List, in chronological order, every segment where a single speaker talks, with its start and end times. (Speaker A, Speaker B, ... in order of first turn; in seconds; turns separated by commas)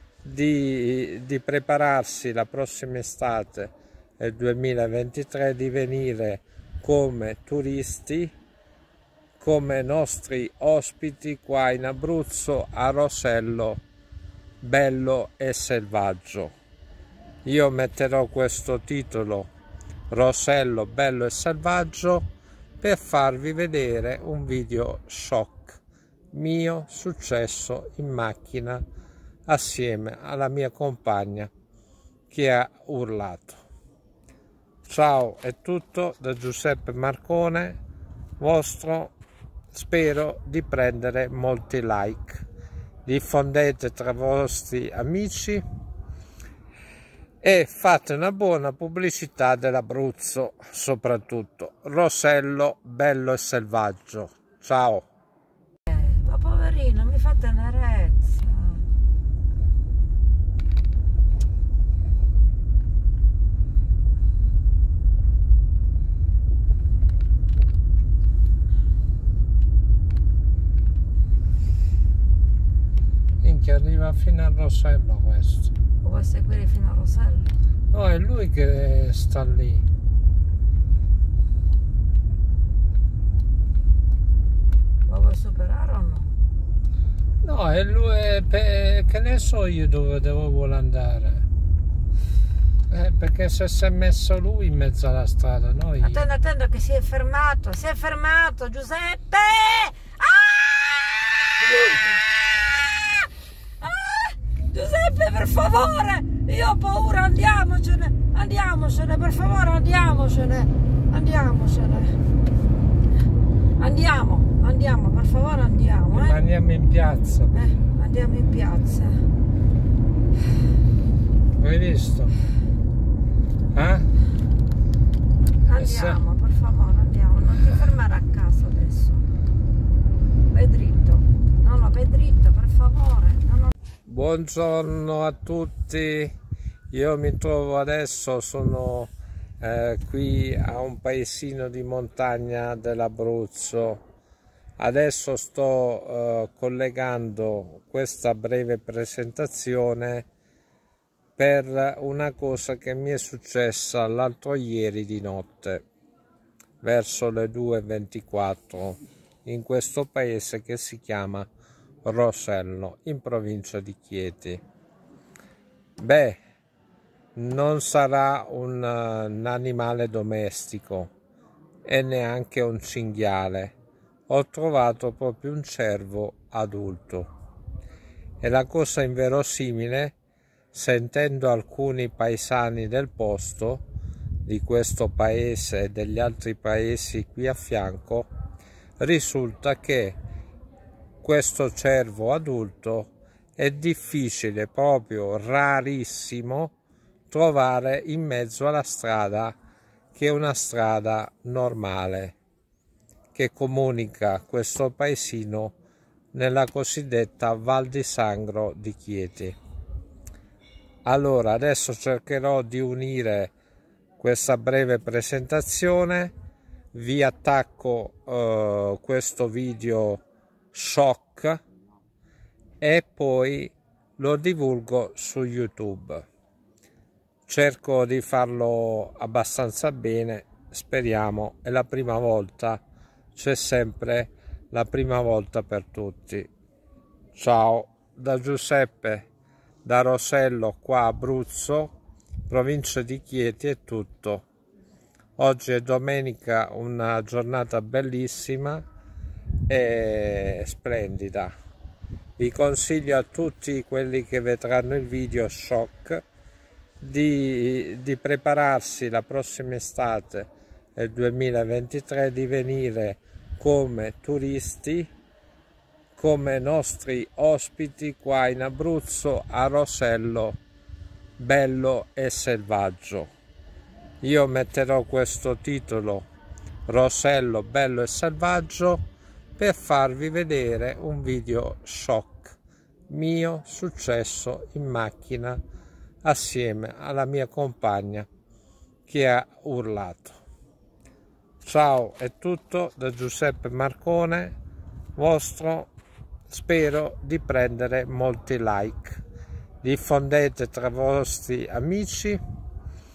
Speaker A: 0.2-8.3, Speaker A: 9.4-13.8, Speaker A: 14.6-16.5, Speaker A: 17.4-19.5, Speaker A: 20.1-22.3, Speaker A: 22.8-25.8, Speaker A: 26.3-28.8, Speaker A: 29.5-31.5, Speaker A: 32.3-33.6, Speaker A: 34.9-37.8, Speaker A: 38.4-39.1, Speaker A: 39.7-42.4, Speaker A: 43.0-45.6, Speaker A: 47.4-55.1, Speaker B: 55.9-58.8, Speaker A: 73.4-75.7, Speaker B: 76.0-77.5, Speaker A: 77.9-79.8, Speaker B: 85.1-86.3, Speaker A: 87.4-91.4, Speaker A: 92.9-96.2, Speaker B: 96.0-103.3, Speaker B: 103.8-112.2, Speaker B: 113.8-116.4, Speaker A: 116.1-117.8, Speaker B: 117.5-119.2, Speaker A: 121.6-122.3, Speaker A: 123.7-124.0, Speaker B: 125.6-129.3, Speaker A: 125.7-126.2, Speaker B: 130.5-133.7, Speaker A: 134.1-136.3, Speaker A: 136.9-144.0, Speaker A: 144.8-150.3, Speaker A: 151.4-155.8, Speaker A: 156.8-161.5, Speaker A: 162.0-164.6, Speaker A: 166.0-166.4, Speaker A: 167.3-171.1, Speaker A: 171.8-173.7, Speaker A: 174.3-177.3, Speaker A: 178.4-180.1, Speaker A: 180.7-183.8, Speaker A: 184.4-188.3, Speaker A: 189.0-190.2, Speaker A: 191.2-196.7, Speaker A: 197.3-199.5, Speaker A: 200.1-202.4, Speaker A: 203.3-205.7, Speaker A: 206.3-209.6, Speaker A: 211.0-213.5, Speaker A: 214.2-216.3, Speaker A: 216.9-221.6, Speaker A: 222.8-226.2, Speaker A: 227.5-232.8, Speaker A: 233.3-236.5, Speaker A: 237.3-239.3, Speaker A: 239.8-241.9, Speaker A: 242.5-244.4, Speaker A: 245.4-248.8, Speaker A: 249.7-251.5, Speaker A: 252.4-256.2, Speaker A: 257.0-265.1, Speaker A: 266.1-270.6, Speaker A: 271.4-273.3, Speaker A: 274.2-276.3, Speaker A: 276.9-279.0, Speaker A: 279.6-282.5, Speaker A: 283.1-285.6, Speaker A: 286.2-288.3, Speaker A: 289.1-290.4, Speaker A: 291.6-294.6, Speaker A: 295.1-295.9, Speaker A: 296.5-299.2, Speaker A: 299.8-302.4